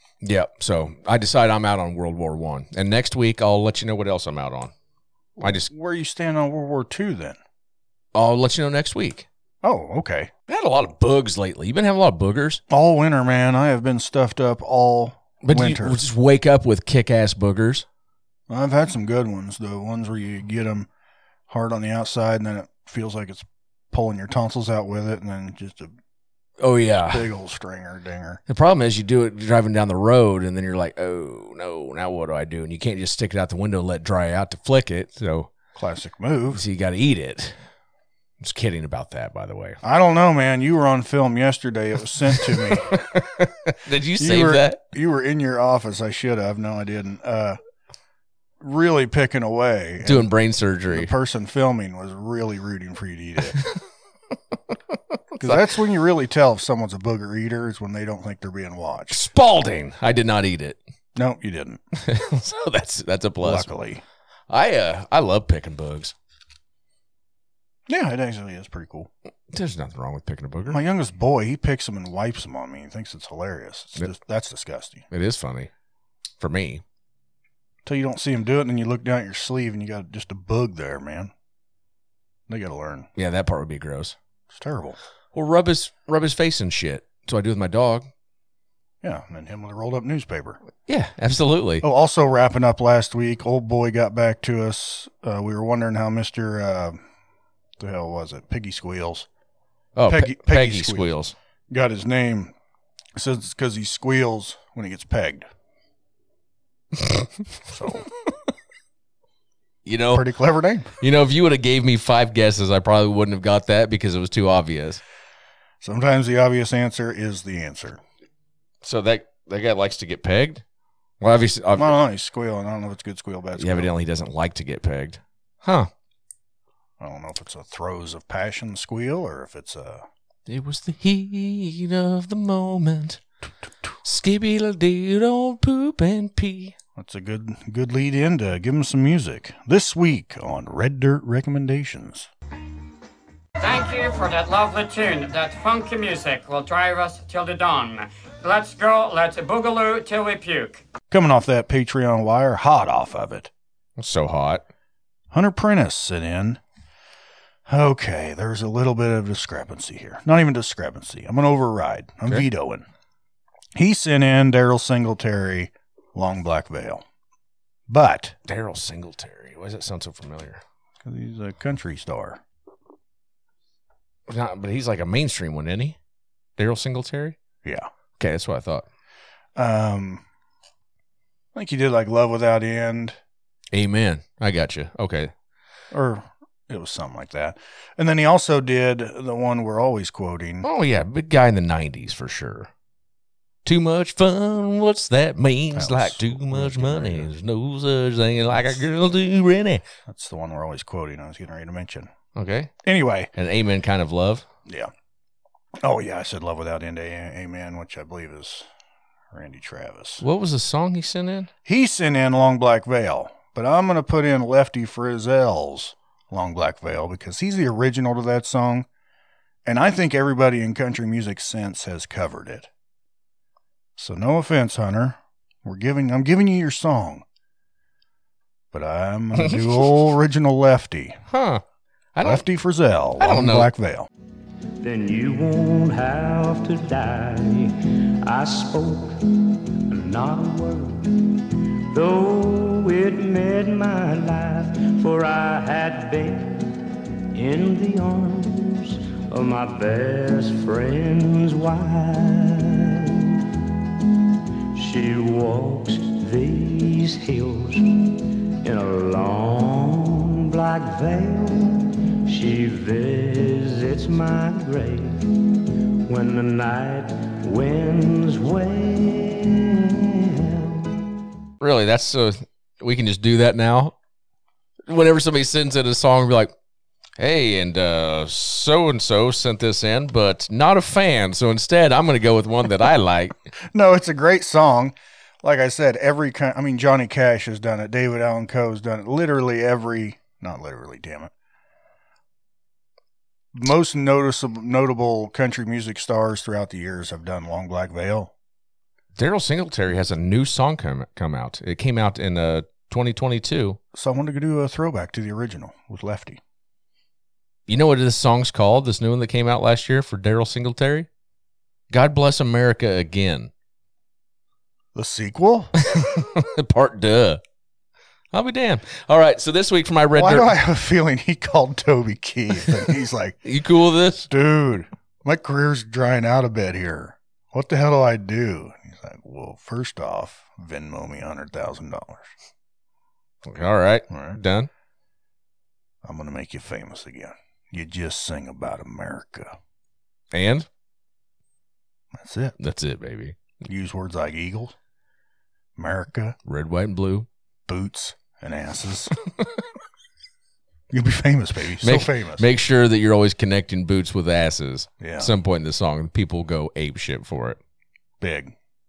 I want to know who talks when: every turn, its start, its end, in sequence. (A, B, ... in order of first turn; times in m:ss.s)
0:00.2-0:04.7 A
0:05.4-0:07.4 B
0:05.4-0:05.7 A
0:08.1-0:09.3 A
0:09.6-0:10.3 B
0:10.5-0:12.6 A
0:12.7-0:16.0 B
0:15.4-0:17.8 A
0:18.5-0:20.9 B
0:21.5-0:25.9 B
0:26.6-0:27.3 A
0:27.0-0:28.4 B
0:28.5-0:35.5 A
0:35.7-0:36.6 B
0:36.5-0:37.6 A
0:38.4-0:39.8 A
0:39.8-0:43.0 B
0:42.6-0:44.8 A
0:44.2-0:47.6 B
0:48.6-0:50.3 B
0:50.0-0:51.1 A
0:50.9-0:53.6 B
0:55.4-0:59.2 B
0:59.1-1:00.8 A
1:01.1-1:01.8 B
1:02.0-1:03.7 A
1:03.4-1:04.0 B
1:04.5-1:06.1 A
1:07.9-1:09.1 B
1:09.5-1:10.8 A
1:10.7-1:15.0 B
1:15.1-1:15.7 A
1:16.4-1:16.8 A
1:17.8-1:21.3 B
1:22.5-1:23.1 B
1:23.2-1:24.2 A
1:24.5-1:25.0 B
1:25.3-1:28.1 A
1:29.0-1:30.6 B
1:30.9-1:31.8 A
1:31.8-1:37.0 B
1:37.8-1:39.3 B
1:39.9-1:41.3 A
1:40.0-1:41.1 B
1:41.7-1:42.5 B
1:43.1-1:45.5 B
1:47.7-1:48.1 B
1:49.8-1:50.3 A
1:50.1-1:50.9 B
1:51.0-1:55.0 A
1:55.8-1:58.0 B
1:58.8-2:00.6 A
2:01.2-2:02.0 A
2:01.7-2:03.9 B
2:03.6-2:05.9 A
2:07.0-2:10.0 B
2:10.5-2:13.2 A
2:14.0-2:16.7 A
2:17.0-2:22.3 B
2:23.6-2:30.8 C
2:31.1-2:33.5 B
2:34.0-2:34.6 A
2:35.3-2:36.6 B
2:37.7-2:42.9 B
2:43.7-2:47.0 B
2:47.9-2:48.4 B
2:48.5-2:50.6 A
2:51.0-2:52.4 B
2:54.3-2:56.0 A
2:56.6-2:57.4 A
2:58.2-2:58.8 A
2:59.6-3:00.2 B
3:01.5-3:03.2 B
3:03.7-3:05.3 A
3:05.9-3:10.7 B
3:10.6-3:12.7 A
3:13.6-3:19.8 A
3:15.7-3:17.3 B
3:20.1-3:22.1 B
3:22.3-3:22.7 A
3:22.8-3:23.3 B
3:23.3-3:24.4 A
3:24.6-3:24.9 B
3:25.8-3:28.7 B
3:29.3-3:30.2 B
3:30.2-3:31.5 A
3:31.6-3:38.9 B
3:39.6-3:42.7 B
3:44.0-3:47.2 B
3:48.7-3:51.2 B
3:51.3-3:51.6 A
3:52.1-3:52.4 A
3:52.2-3:54.1 B
3:53.2-3:53.7 A
3:54.8-4:06.8 D
4:07.3-4:13.4 D
4:14.7-4:30.9 D
4:31.6-4:33.9 A
4:34.9-4:36.5 A
4:37.2-4:43.4 A
4:43.7-4:51.3 B
4:53.5-4:58.3 B
4:59.2-5:03.8 A
5:03.9-5:06.4 B
5:07.7-5:11.1 A
5:11.9-5:13.5 A
5:14.9-5:15.7 B
5:15.8-5:17.4 A
5:18.3-5:20.5 A
5:20.1-5:23.4 B
5:23.4-5:24.3 A
5:24.3-5:32.3 B
5:33.4-5:34.7 A
5:34.1-5:34.4 B
5:36.0-5:39.6 B
5:40.3-5:40.7 A
5:42.1-5:42.6 B
5:42.6-5:43.4 A
5:43.6-5:44.7 B
5:45.8-5:46.4 B
5:46.4-5:47.3 A
5:47.7-5:49.1 B
5:50.9-5:52.5 B
5:51.8-5:57.6 A
5:55.0-5:55.3 B
5:58.2-5:58.5 B